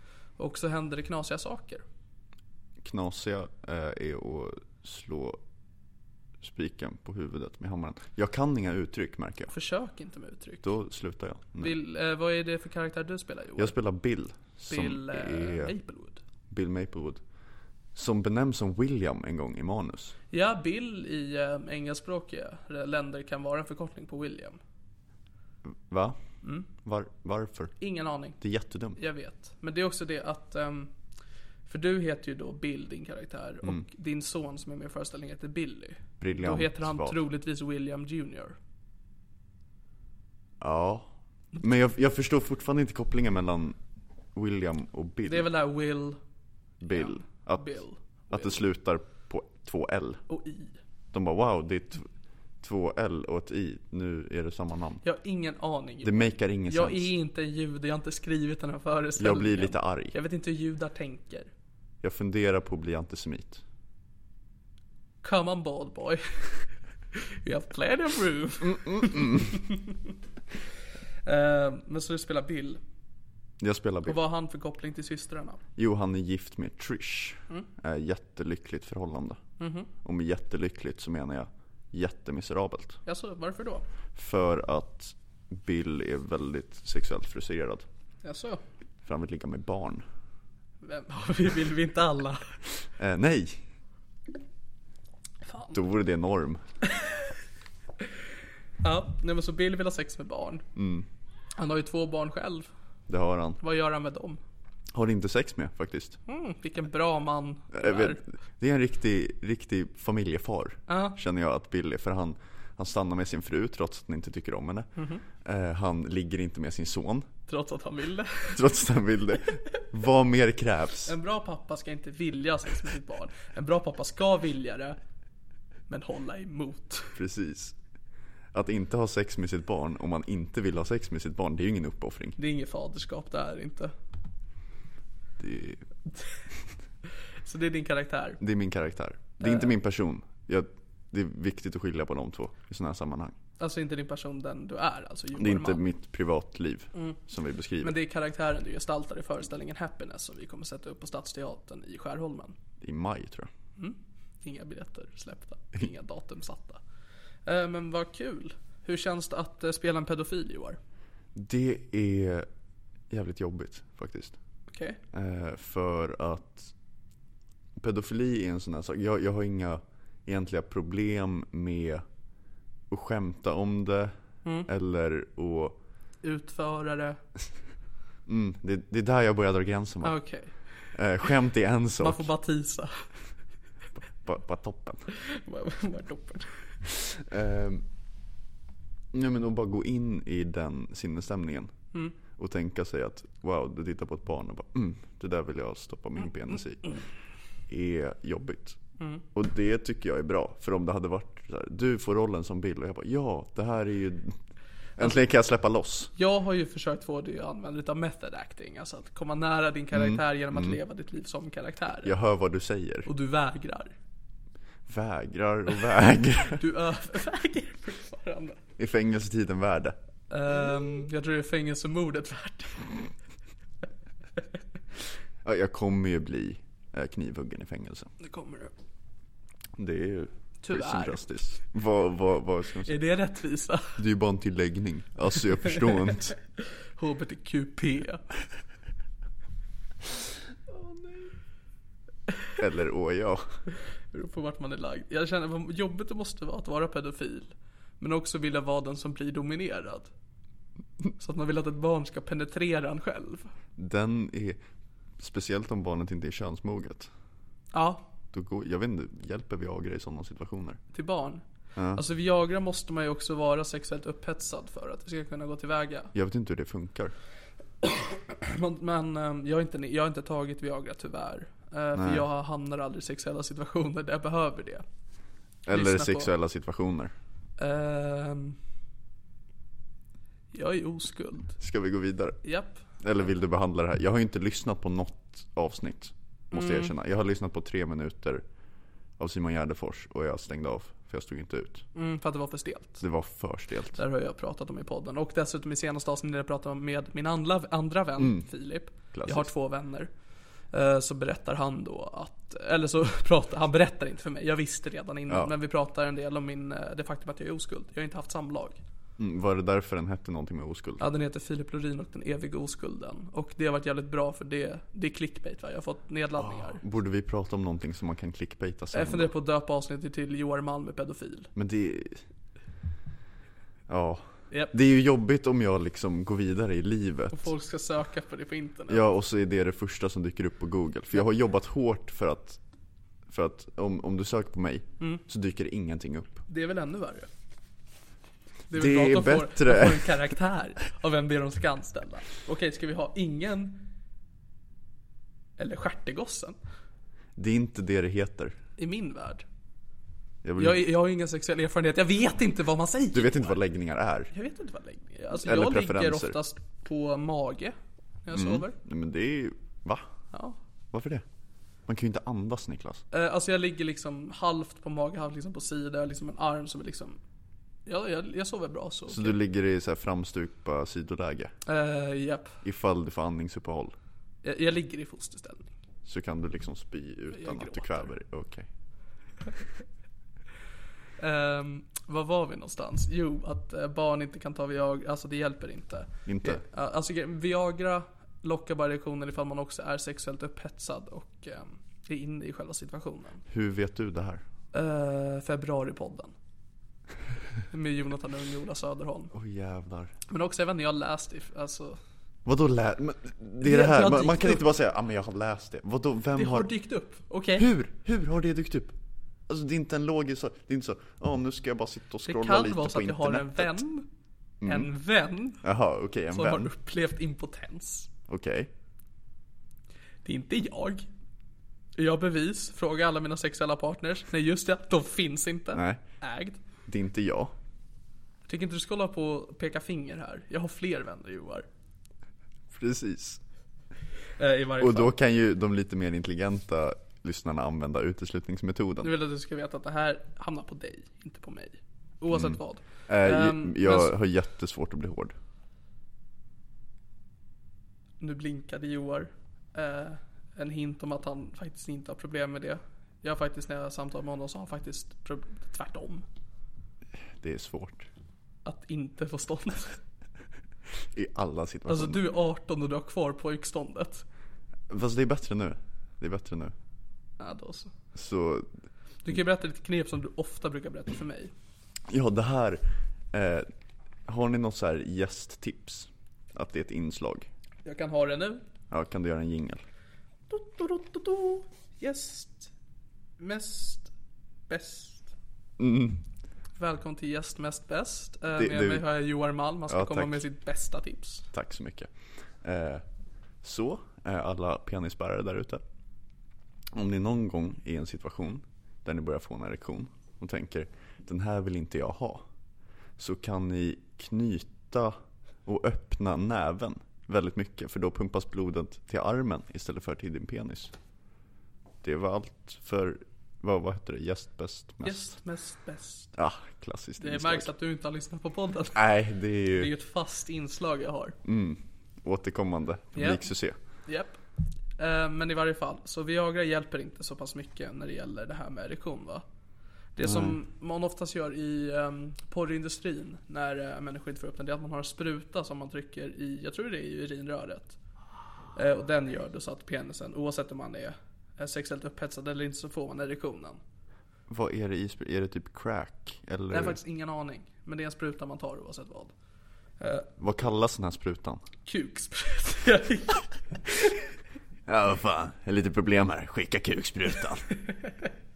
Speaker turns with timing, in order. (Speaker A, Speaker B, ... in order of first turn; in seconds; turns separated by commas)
Speaker A: 0.4-1.8, Speaker B: 2.8-5.4, Speaker B: 6.4-9.5, Speaker A: 9.5-10.7, Speaker B: 10.6-11.7, Speaker A: 11.6-13.8, Speaker B: 13.6-15.7, Speaker A: 14.7-16.2, Speaker B: 16.5-17.2, Speaker B: 17.9-20.1, Speaker A: 20.3-24.6, Speaker B: 25.9-26.2, Speaker B: 26.8-27.7, Speaker A: 27.8-28.4, Speaker B: 28.4-29.0, Speaker A: 28.9-30.9, Speaker A: 31.6-38.5, Speaker B: 36.2-37.2, Speaker B: 40.6-43.8, Speaker B: 44.3-45.5, Speaker A: 45.3-46.2, Speaker B: 46.8-47.8, Speaker A: 46.9-48.6, Speaker B: 48.3-50.2, Speaker A: 50.3-50.8, Speaker B: 51.1-52.1, Speaker B: 52.6-55.0, Speaker A: 55.0-61.5, Speaker B: 56.0-57.1, Speaker B: 59.2-60.1, Speaker B: 62.0-63.6, Speaker A: 65.2-69.9, Speaker B: 68.8-69.5, Speaker A: 71.2-72.8, Speaker B: 73.6-74.2, Speaker A: 74.0-75.6, Speaker B: 75.8-79.4, Speaker A: 79.6-79.9, Speaker B: 80.0-83.0, Speaker A: 83.0-83.8, Speaker B: 84.1-87.8, Speaker A: 88.2-88.6, Speaker B: 89.0-90.0, Speaker A: 90.8-92.5, Speaker B: 93.0-93.6, Speaker A: 95.4-95.8, Speaker B: 95.7-96.6, Speaker A: 96.9-97.2, Speaker A: 98.8-100.6, Speaker B: 100.8-101.0, Speaker A: 101.6-102.7, Speaker B: 103.1-103.6, Speaker A: 103.6-104.4, Speaker B: 104.9-106.2, Speaker A: 106.3-108.2, Speaker B: 107.7-114.9, Speaker A: 110.9-111.2, Speaker A: 115.0-115.2, Speaker B: 115.4-117.3, Speaker A: 117.5-118.7, Speaker B: 118.5-121.1, Speaker A: 121.0-125.0, Speaker A: 125.9-127.2, Speaker B: 127.1-127.8, Speaker B: 128.5-132.4, Speaker A: 132.4-133.9, Speaker B: 135.4-135.8, Speaker A: 137.4-138.4, Speaker B: 138.4-143.3, Speaker A: 139.4-139.7, Speaker A: 143.6-145.8, Speaker B: 145.3-148.0, Speaker A: 147.8-152.6, Speaker B: 152.8-153.5, Speaker A: 153.8-156.8, Speaker A: 157.4-160.8, Speaker B: 161.3-162.5, Speaker B: 163.1-164.4, Speaker A: 164.7-165.0, Speaker B: 165.1-166.7, Speaker B: 167.8-172.0, Speaker B: 172.9-174.1, Speaker B: 174.7-175.8, Speaker A: 176.2-177.2, Speaker B: 178.3-180.2, Speaker A: 180.0-181.0, Speaker B: 180.9-182.3, Speaker A: 182.0-183.1, Speaker B: 184.2-185.1, Speaker A: 185.2-186.8, Speaker B: 187.1-187.8, Speaker B: 189.1-191.7, Speaker B: 192.4-196.8, Speaker B: 197.7-198.8, Speaker A: 199.0-199.2, Speaker B: 199.3-204.4, Speaker B: 205.0-206.1, Speaker A: 206.2-212.1, Speaker B: 209.9-210.8, Speaker B: 212.0-213.1, Speaker A: 213.1-213.9, Speaker B: 214.9-216.6, Speaker A: 216.5-218.6, Speaker B: 218.8-219.9, Speaker A: 220.3-223.1, Speaker B: 225.4-228.1, Speaker A: 228.2-228.7, Speaker B: 229.8-232.9, Speaker A: 230.6-231.2, Speaker A: 232.8-234.0, Speaker B: 234.0-236.3, Speaker A: 237.0-238.2, Speaker A: 240.7-241.4, Speaker B: 242.6-243.6, Speaker A: 244.1-250.1, Speaker A: 251.2-253.5, Speaker B: 253.8-254.6, Speaker B: 255.2-257.1, Speaker A: 257.7-258.1, Speaker B: 258.3-260.8, Speaker A: 260.9-261.4, Speaker B: 261.8-262.0, Speaker A: 261.9-266.1, Speaker B: 266.1-267.1, Speaker A: 267.8-274.8, Speaker B: 271.9-272.3, Speaker B: 275.6-277.1, Speaker A: 275.7-276.3, Speaker A: 277.6-278.6, Speaker A: 280.5-281.6, Speaker B: 281.6-282.4, Speaker A: 282.4-282.8, Speaker B: 283.0-288.4, Speaker A: 286.5-286.9, Speaker B: 289.2-291.9, Speaker A: 291.9-293.0, Speaker B: 293.0-294.0, Speaker A: 293.9-300.1, Speaker B: 298.2-298.4, Speaker B: 299.1-299.5, Speaker A: 300.7-308.8, Speaker B: 309.2-311.0, Speaker A: 311.0-316.8, Speaker B: 316.4-319.3, Speaker A: 318.9-321.5, Speaker B: 321.6-322.2, Speaker B: 323.9-327.5, Speaker A: 327.3-329.1, Speaker B: 328.9-332.6, Speaker B: 333.3-336.4, Speaker A: 336.5-337.3, Speaker A: 338.7-343.9, Speaker B: 338.7-340.1, Speaker A: 345.6-346.6, Speaker B: 347.4-348.6, Speaker A: 348.8-349.4, Speaker B: 350.4-350.8, Speaker A: 350.6-353.6, Speaker B: 353.1-354.3, Speaker A: 354.3-358.8, Speaker B: 355.3-356.4, Speaker B: 358.3-360.1, Speaker B: 360.9-361.2, Speaker B: 361.9-363.0, Speaker A: 363.1-367.2, Speaker A: 367.9-369.4, Speaker B: 369.1-371.5, Speaker A: 371.6-372.6, Speaker B: 372.6-373.9, Speaker A: 374.4-375.7, Speaker B: 376.0-378.7, Speaker A: 377.3-378.1, Speaker A: 381.2-393.4, Speaker B: 386.2-386.6, Speaker B: 393.5-394.4, Speaker A: 394.7-396.3, Speaker A: 397.7-399.3, Speaker B: 399.3-400.1, Speaker A: 400.3-402.0, Speaker B: 402.4-406.7, Speaker A: 403.6-404.6, Speaker A: 406.3-407.7, Speaker B: 407.5-408.9, Speaker B: 409.5-413.8, Speaker A: 412.2-414.1, Speaker B: 414.6-414.9, Speaker A: 414.6-415.6, Speaker B: 415.6-416.7, Speaker A: 416.3-418.1, Speaker B: 418.3-418.7, Speaker A: 420.2-421.1, Speaker A: 422.0-426.6, Speaker B: 425.7-426.0, Speaker B: 426.9-427.5, Speaker A: 428.5-431.6, Speaker B: 432.7-433.4, Speaker A: 434.4-435.1, Speaker B: 434.8-439.1, Speaker A: 439.0-444.1, Speaker B: 442.3-445.3, Speaker A: 448.2-456.2, Speaker B: 457.4-458.1, Speaker A: 458.6-460.0, Speaker B: 461.1-462.2, Speaker A: 461.9-464.2, Speaker B: 464.9-466.7, Speaker A: 467.4-467.9, Speaker B: 468.1-468.7, Speaker A: 469.2-471.5, Speaker B: 472.1-473.7, Speaker B: 474.3-477.5, Speaker A: 477.8-478.6, Speaker B: 478.9-479.8, Speaker A: 480.5-482.7, Speaker A: 483.4-484.1, Speaker A: 484.7-485.3, Speaker B: 485.8-486.2, Speaker A: 486.8-491.5, Speaker B: 488.6-489.1, Speaker B: 489.9-490.4, Speaker B: 491.5-493.0, Speaker B: 493.6-495.8, Speaker B: 496.9-502.5, Speaker B: 503.2-510.9, Speaker B: 512.0-515.3, Speaker A: 515.0-516.3, Speaker B: 516.4-517.7, Speaker A: 517.2-519.1, Speaker B: 518.9-519.9, Speaker A: 519.7-521.4, Speaker B: 521.4-523.8, Speaker A: 523.1-523.5, Speaker A: 524.1-524.4, Speaker A: 525.0-529.4, Speaker A: 530.1-538.0, Speaker B: 530.2-530.6, Speaker A: 538.8-543.8, Speaker B: 544.5-547.0, Speaker A: 546.7-549.3, Speaker A: 550.0-550.3, Speaker B: 550.4-551.6, Speaker A: 551.9-554.2, Speaker B: 554.9-557.7, Speaker A: 557.9-558.3